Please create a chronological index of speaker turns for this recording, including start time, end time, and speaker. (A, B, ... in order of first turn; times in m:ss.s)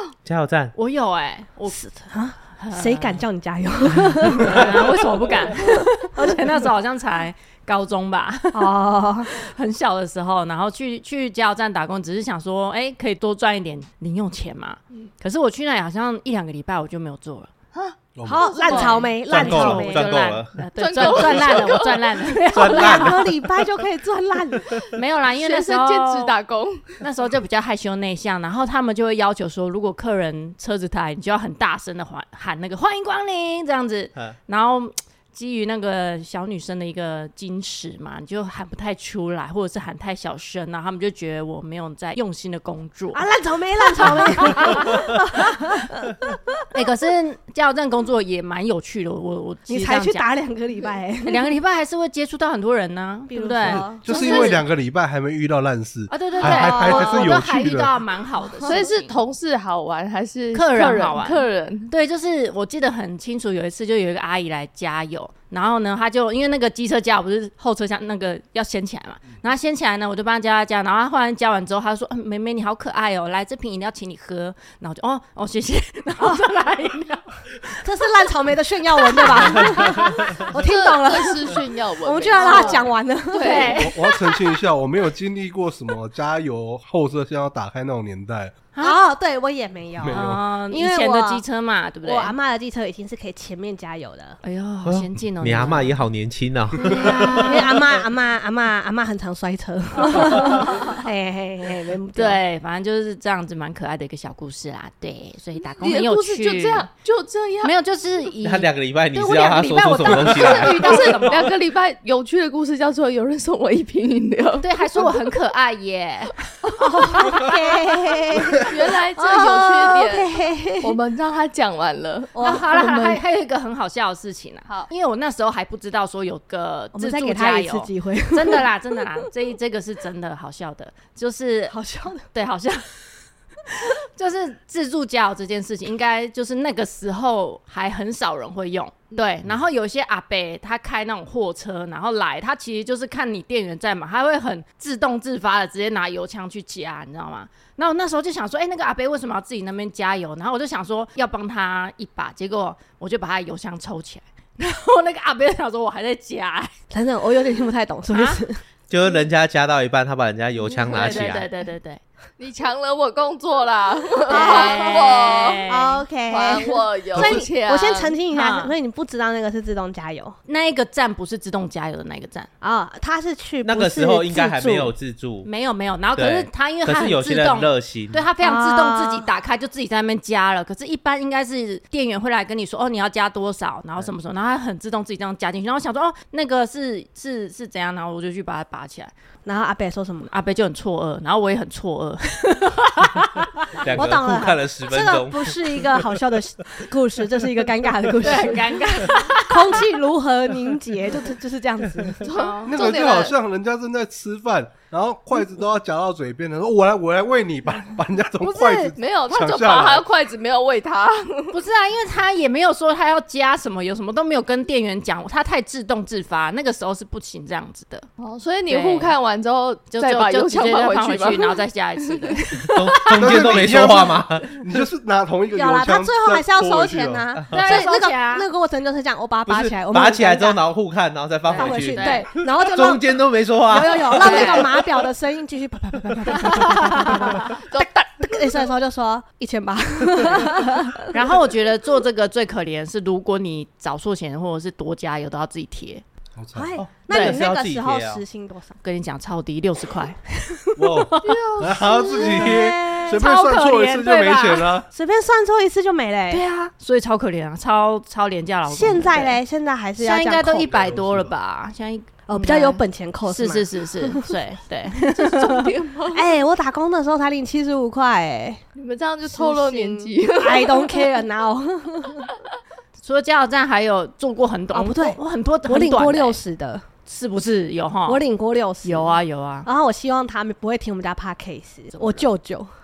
0:00.2-0:00.7 A
0:00.7-0:01.8 B
0:01.7-0:06.6 C
0:02.5-0:03.2 B
0:04.2-0:08.7 B
0:08.5-0:09.3 C
0:09.3-0:17.5 B
0:17.7-0:19.0 D
0:18.1-0:18.5 E
0:18.2-0:20.1 C
0:18.6-0:23.2 B
0:19.3-0:20.5 A
0:19.3-0:19.9 E
0:20.8-0:22.2 D
0:21.0-0:21.7 C
0:22.5-0:23.4 A
0:22.5-0:24.8 C
0:24.9-0:26.3 B
0:25.3-0:27.0 D
0:27.0-0:43.2 B
0:43.1-0:46.6 C
0:44.4-0:45.0 B
0:46.7-0:50.3 B
0:49.7-0:51.6 C
0:51.2-0:54.6 B
0:53.3-0:54.5 C
0:53.6-0:58.0 E
0:54.1-0:54.6 D
0:56.1-0:59.2 B
0:56.4-0:57.4 C
0:58.6-1:01.9 D
1:00.5-1:17.4 B
1:17.8-1:24.3 C
1:19.0-1:20.4 B
1:20.5-1:23.8 D
1:22.3-1:24.0 B
1:23.7-1:28.5 E
1:28.7-1:29.0 B
1:28.8-1:31.4 C
1:30.0-1:30.4 E
1:30.1-1:32.3 B
1:32.0-1:34.4 C
1:34.4-1:36.0 B
1:34.8-1:37.8 A
1:36.8-1:37.5 B
1:36.9-1:42.4 C
1:40.0-1:41.0 B
1:42.1-1:46.9 B
1:45.8-1:47.7 D
1:47.6-1:51.5 B
1:48.4-1:51.1 A
1:50.2-1:55.1 D
1:54.6-1:56.4 B
1:56.8-2:01.0 C
1:57.2-1:57.4 B
1:58.6-2:00.3 D
2:00.8-2:03.1 D
2:02.3-2:03.2 C
2:02.4-2:11.8 B
2:06.9-2:08.6 C
2:11.7-2:12.3 C
2:12.3-2:12.9 B
2:13.8-2:36.7 B
2:36.9-2:38.6 C
2:38.1-2:38.4 B
2:38.9-2:41.4 A
2:40.7-2:42.0 B
2:42.4-2:45.6 D
2:44.3-2:50.4 C
2:44.3-2:46.0 B
2:46.3-2:48.2 D
2:47.1-2:47.4 E
2:48.3-2:48.7 B
2:50.5-2:52.5 B
2:52.6-2:54.9 C
2:53.6-2:55.5 A
2:55.4-3:09.1 B
2:56.2-2:58.2 A
2:58.4-2:59.3 C
3:09.4-3:10.3 C
3:10.2-3:13.5 B
3:13.8-3:15.6 A
3:13.9-3:22.2 C
3:18.2-3:19.9 B
3:22.2-3:23.3 D
3:22.2-3:22.7 B
3:22.6-3:30.1 E
3:28.4-3:28.9 C
3:28.9-3:31.5 D
3:31.5-3:38.1 B
3:38.2-3:41.6 D
3:38.7-3:39.1 B
3:39.9-3:43.4 B
3:42.7-3:44.6 A
3:43.1-3:47.2 E
3:45.5-3:50.6 C
3:47.5-3:48.4 B
3:49.5-3:54.4 A
3:51.5-3:53.0 C
3:51.5-3:52.2 B
3:53.6-4:01.1 C
3:54.2-3:54.7 B
3:54.2-3:54.6 D
3:56.3-3:57.5 B
3:57.5-3:58.4 D
4:01.1-4:06.0 B
4:06.4-4:06.8 E
4:06.5-4:08.8 C
4:06.8-4:08.2 A
4:08.8-4:10.2 B
4:10.4-4:11.4 C
4:10.8-4:14.9 E
4:11.0-4:14.7 B
4:12.0-4:13.2 C
4:14.9-4:16.4 C
4:16.3-4:19.4 B
4:18.7-4:20.7 C
4:20.0-4:25.0 B
4:20.6-4:21.3 E
4:22.3-4:24.4 C
4:25.0-4:28.6 C
4:25.1-4:26.3 D
4:28.8-4:31.1 D
4:29.2-4:32.3 C
4:33.0-4:36.4 B
4:34.7-4:36.8 C
4:37.0-4:38.2 B
4:38.0-4:42.7 C
4:38.8-4:39.7 B
4:42.0-4:42.2 B